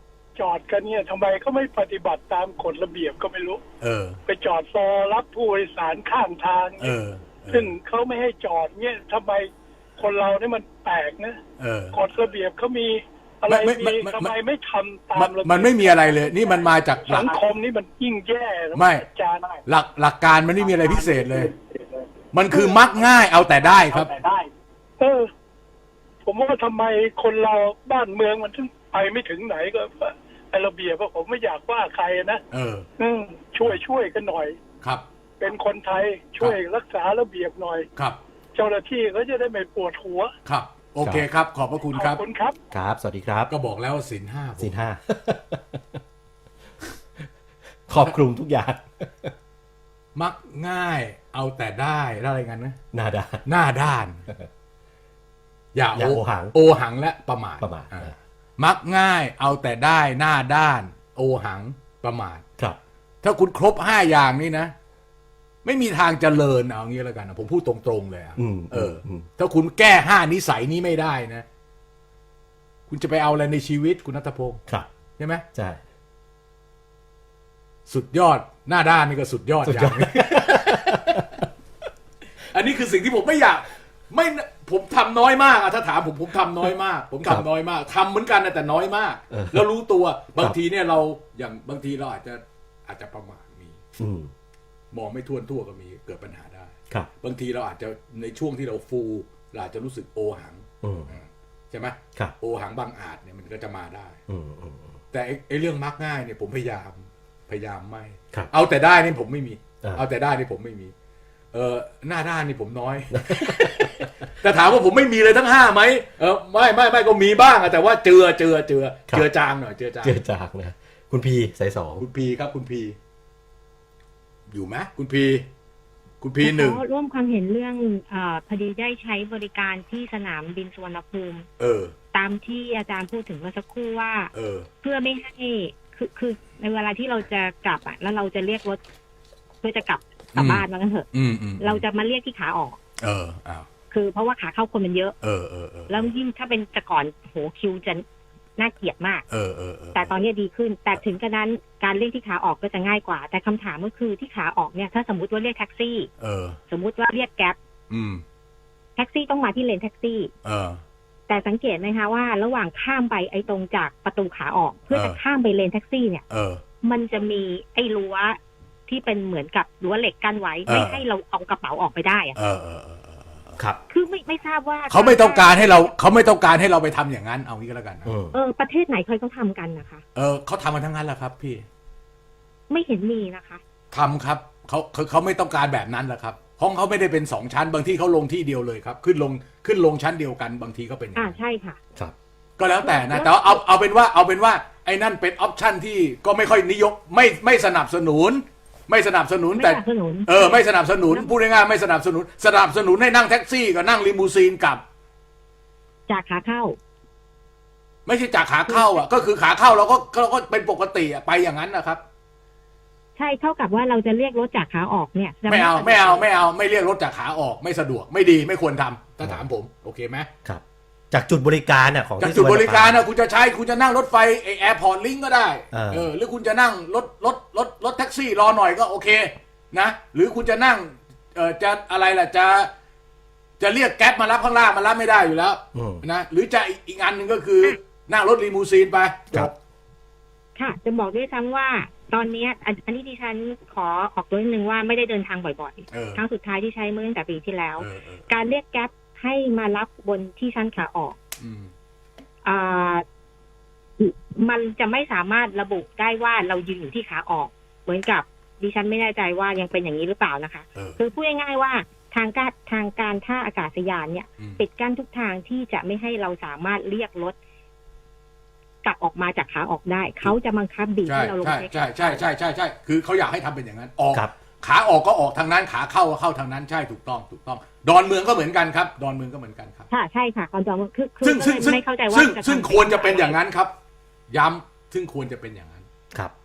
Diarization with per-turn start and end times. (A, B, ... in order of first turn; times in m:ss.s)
0:00.4-0:03.6 A
0:03.8-0:04.2 B
0:04.3-0:06.9 A
0:06.8-0:07.8 B
0:07.5-0:11.4 A
0:11.6-0:12.0 B
0:11.9-0:19.6 A
0:13.4-0:14.4 B
0:15.1-0:17.4 B
0:18.7-0:19.1 B
0:19.7-0:21.5 B
0:20.6-0:21.8 A
0:22.3-0:24.2 B
0:22.5-0:23.1 A
0:23.6-0:24.5 A
0:25.0-0:25.3 A
0:26.2-0:32.4 A
0:32.5-0:32.9 B
0:33.0-0:34.6 A
0:35.4-0:37.9 A
0:36.4-0:36.6 B
0:38.6-0:40.3 A
0:40.4-0:42.2 B
0:41.9-0:42.6 A
0:42.7-0:43.5 C
0:43.5-0:44.8 B
0:44.6-0:46.0 C
0:47.9-0:49.3 C
0:50.2-0:52.8 B
0:52.9-0:53.4 C
0:53.4-0:54.2 B
0:55.8-1:02.4 B
0:55.9-0:56.6 C
0:57.6-0:58.1 C
1:03.2-1:04.7 B
1:05.6-1:11.4 B
1:08.4-1:09.3 C
1:12.9-1:14.6 B
1:15.2-1:15.4 B
1:15.5-1:15.8 C
1:17.9-1:21.0 B
1:19.6-1:21.5 C
1:22.5-1:34.0 B
1:29.3-1:29.7 C
1:34.0-1:34.3 C
1:34.9-1:44.2 B
1:40.8-1:41.1 C
1:44.3-1:44.9 C
1:45.1-1:50.9 B
1:51.5-2:00.2 B
1:53.1-1:54.1 C
2:00.0-2:02.0 C
2:02.0-2:03.0 B
2:04.5-2:05.5 B
2:06.2-2:06.8 B
2:06.4-2:11.5 D
2:11.6-2:12.0 B
2:12.1-2:14.3 D
2:14.3-2:14.7 B
2:14.8-2:18.8 D
2:19.6-2:21.1 D
2:20.3-2:21.8 B
2:21.6-2:22.8 D
2:23.0-2:23.7 B
2:23.9-2:25.2 D
2:25.2-2:26.1 B
2:25.9-2:28.0 D
2:28.6-2:29.2 D
2:29.3-2:30.1 B
2:30.0-2:36.1 D
2:36.2-2:36.6 B
2:36.7-2:37.6 D
2:37.9-2:38.2 B
2:39.0-2:40.3 D
2:40.4-2:40.8 B
2:41.3-2:46.2 D
2:44.9-2:45.2 B
2:46.3-2:46.6 B
2:46.8-2:52.4 D
2:50.7-2:51.0 B
2:52.4-2:53.6 B
2:53.9-2:56.0 D
2:54.9-2:58.1 B
2:58.1-2:58.4 C
2:58.3-3:00.0 D
3:00.2-3:01.6 B
3:02.7-3:03.6 D
3:03.9-3:11.4 B
3:11.2-3:11.8 D
3:12.6-3:24.8 B
3:12.8-3:13.6 D
3:19.6-3:21.4 D
3:26.1-3:26.8 D
3:28.1-3:32.0 B
3:28.7-3:29.1 D
3:33.2-3:36.3 D
3:35.5-3:40.3 B
3:40.4-3:43.0 C
3:42.2-3:52.7 B
3:45.7-3:46.1 C
3:53.6-3:59.5 B
3:55.8-3:56.0 C
4:00.6-4:11.2 D
4:05.9-4:06.2 B
4:07.8-4:08.3 B
4:11.4-4:11.7 B
4:12.4-4:13.0 D
4:14.0-4:27.4 D
4:20.8-4:21.0 B
4:28.8-4:32.3 D
4:31.1-4:39.9 B
4:39.9-4:43.4 D
4:41.2-4:43.7 B
4:44.3-4:45.8 B